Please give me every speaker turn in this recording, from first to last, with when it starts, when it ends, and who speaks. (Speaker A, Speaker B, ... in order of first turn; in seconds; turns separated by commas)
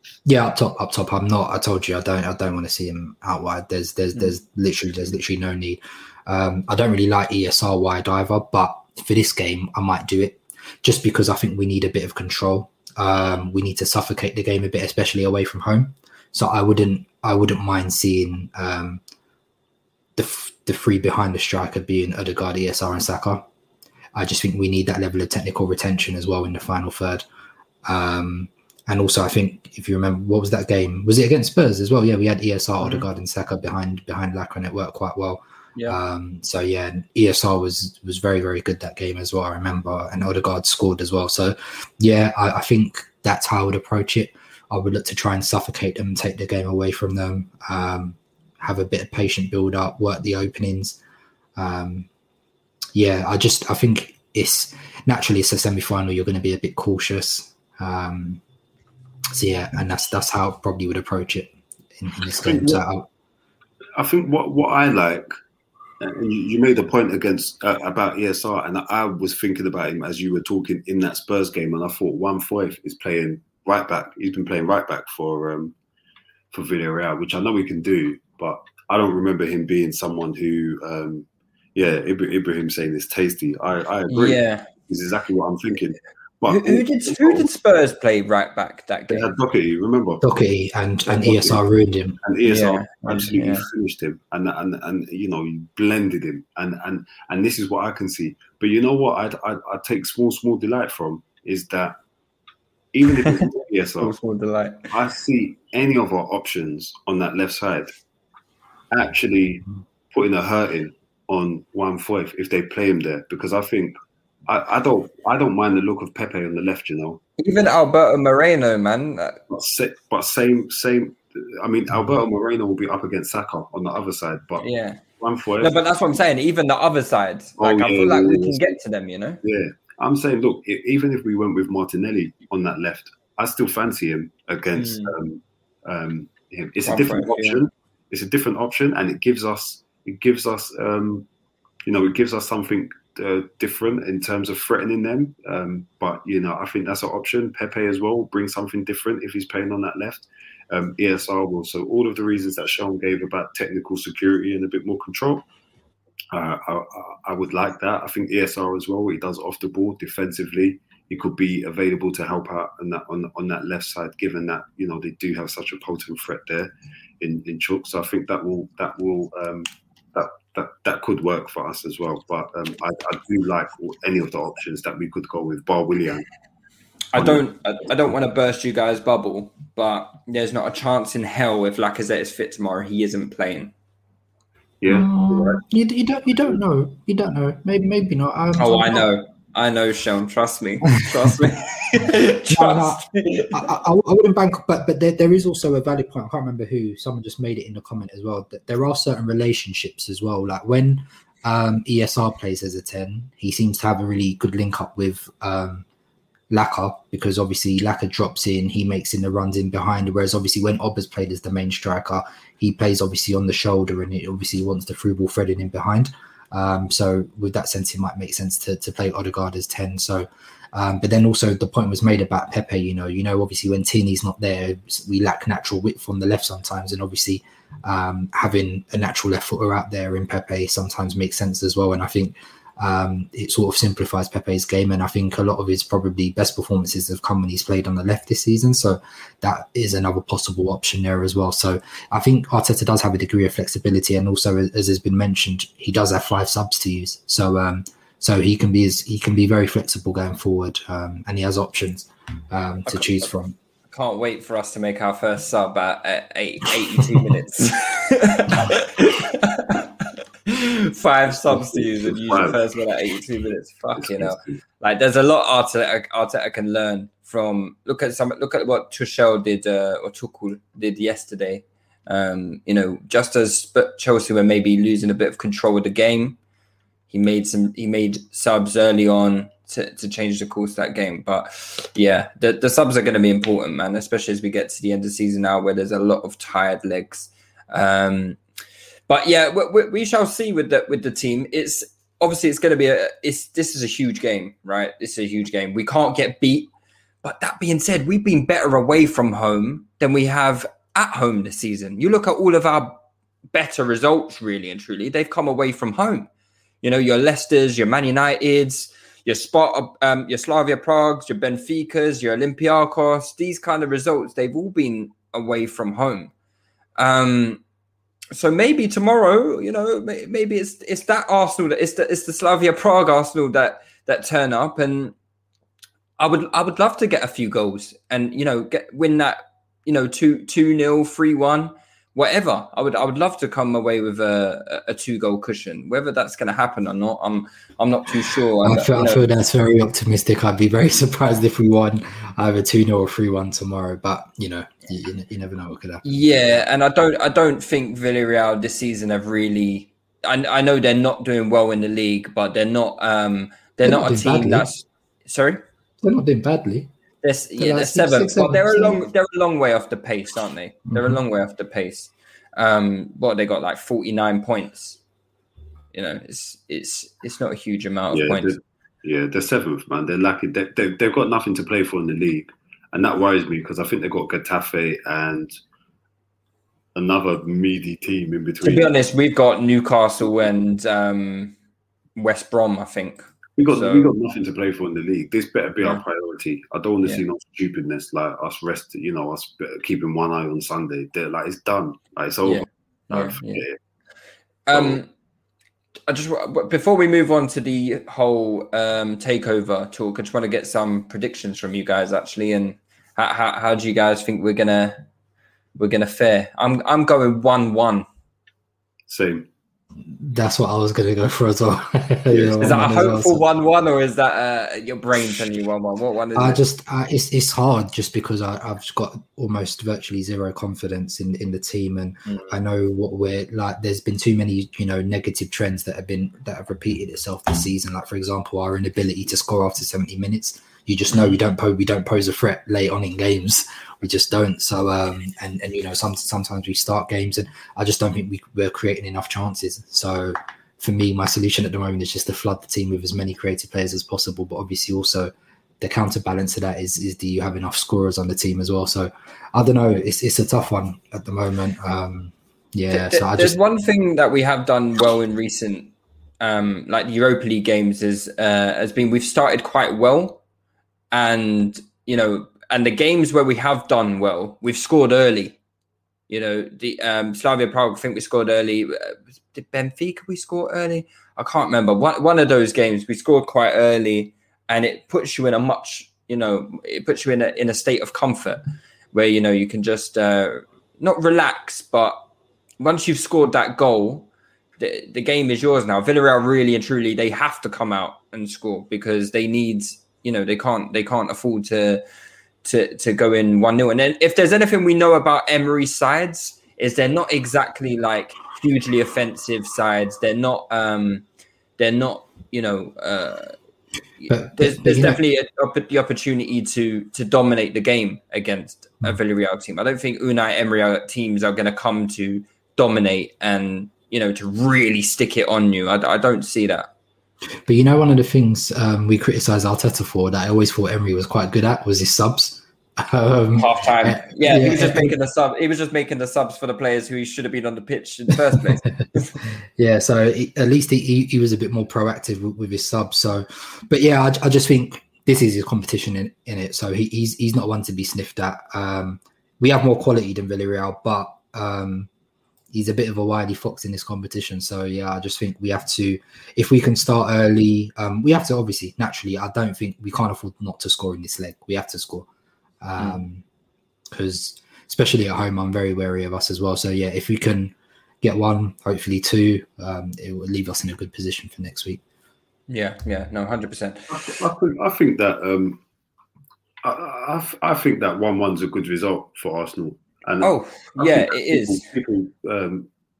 Speaker A: 0.2-19.0, Speaker A: 20.2-23.5, Speaker A: 24.1-27.2, Speaker A: 27.9-51.0, Speaker B: 32.8-33.1, Speaker A: 51.6-52.1, Speaker A: 52.9-58.4, Speaker A: 59.3-63.1, Speaker C: 62.3-62.8, Speaker C: 64.0-65.3, Speaker C: 66.0-75.7, Speaker C: 76.5-87.5, Speaker B: 84.1-84.7, Speaker B: 86.5-89.3, Speaker C: 89.1-90.2, Speaker A: 90.2-92.2, Speaker C: 91.2-91.6, Speaker C: 92.2-102.0, Speaker B: 92.5-93.7, Speaker C: 102.9-104.2, Speaker B: 104.0-104.9, Speaker C: 104.9-107.9, Speaker C: 108.9-117.2, Speaker B: 117.4-119.4, Speaker C: 119.5-124.7, Speaker B: 124.6-125.0, Speaker C: 125.2-125.8, Speaker B: 125.6-129.4, Speaker C: 127.6-128.7, Speaker C: 129.4-141.3, Speaker B: 134.8-135.1, Speaker B: 136.8-137.6, Speaker C: 141.8-155.4, Speaker C: 156.3-176.3, Speaker B: 177.1-183.7, Speaker C: 177.2-177.4, Speaker C: 184.8-185.6, Speaker A: 184.9-189.1, Speaker B: 188.6-193.6, Speaker A: 192.5-205.8, Speaker A: 206.5-253.6, Speaker B: 252.9-253.3, Speaker B: 253.9-276.4, Speaker C: 261.3-262.6, Speaker C: 264.0-264.6, Speaker B: 277.1-288.4, Speaker B: 289.1-296.7, Speaker B: 297.2-303.0, Speaker B: 303.5-306.3, Speaker B: 306.8-316.3, Speaker B: 317.0-317.6, Speaker B: 318.3-325.1, Speaker B: 326.2-339.2, Speaker A: 338.6-346.6, Speaker B: 346.0-355.6, Speaker A: 353.8-354.7, Speaker A: 356.0-356.9, Speaker B: 357.2-365.0, Speaker A: 357.6-359.0, Speaker A: 360.9-361.2, Speaker B: 365.9-368.6, Speaker C: 368.1-375.6, Speaker C: 376.9-379.0, Speaker B: 378.6-381.6, Speaker B: 382.2-384.1, Speaker C: 383.6-393.8, Speaker B: 392.4-393.6, Speaker B: 394.7-395.1, Speaker C: 394.7-395.0, Speaker B: 396.1-405.0, Speaker B: 405.8-408.1, Speaker C: 409.1-409.5, Speaker A: 410.1-413.4, Speaker C: 412.3-412.8, Speaker B: 412.6-416.6, Speaker A: 416.4-453.6, Speaker B: 422.3-422.6, Speaker B: 452.9-460.4, Speaker B: 461.1-465.6, Speaker B: 466.3-478.6, Speaker B: 479.1-482.2, Speaker B: 482.8-484.3, Speaker B: 484.8-492.0, Speaker B: 492.6-501.2, Speaker B: 501.8-503.5, Speaker B: 504.2-516.9, Speaker A: 504.3-505.2, Speaker A: 517.6-525.2, Speaker B: 523.6-529.4, Speaker A: 529.4-542.1, Speaker A: 542.7-552.3, Speaker A: 552.8-553.4, Speaker A: 554.1-562.0, Speaker B: 562.7-564.1, Speaker C: 564.1-565.8, Speaker C: 566.8-572.9, Speaker B: 570.4-571.9